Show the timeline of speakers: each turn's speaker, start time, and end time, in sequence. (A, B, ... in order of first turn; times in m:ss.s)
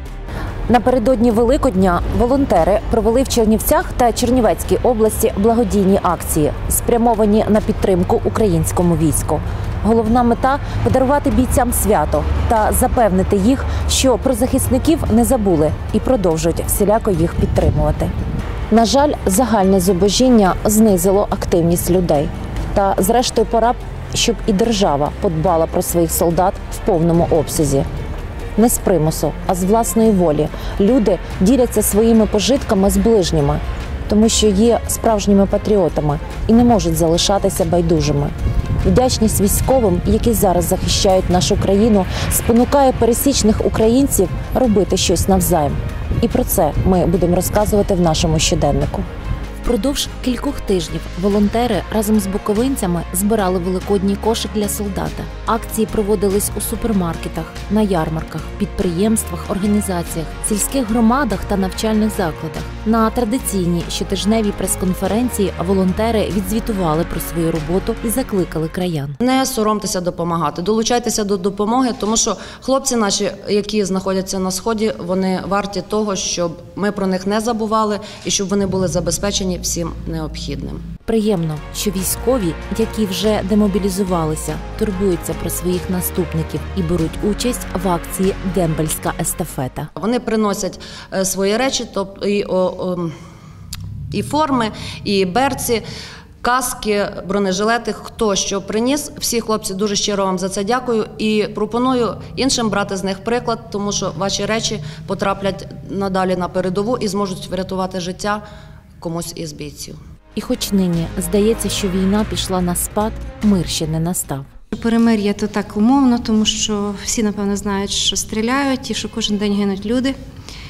0:00.7-0:18.1 A
0:18.7-0:27.9 A
0:28.6-0:49.1 A
0:49.6-1:09.2 A
1:09.2-1:20.8 B
1:21.1-1:29.9 A
1:30.0-1:33.1 B
1:34.1-1:35.8 B
1:36.4-1:48.4 B
1:49.0-1:50.0 B
1:50.4-1:54.5 A
1:54.7-2:00.1 C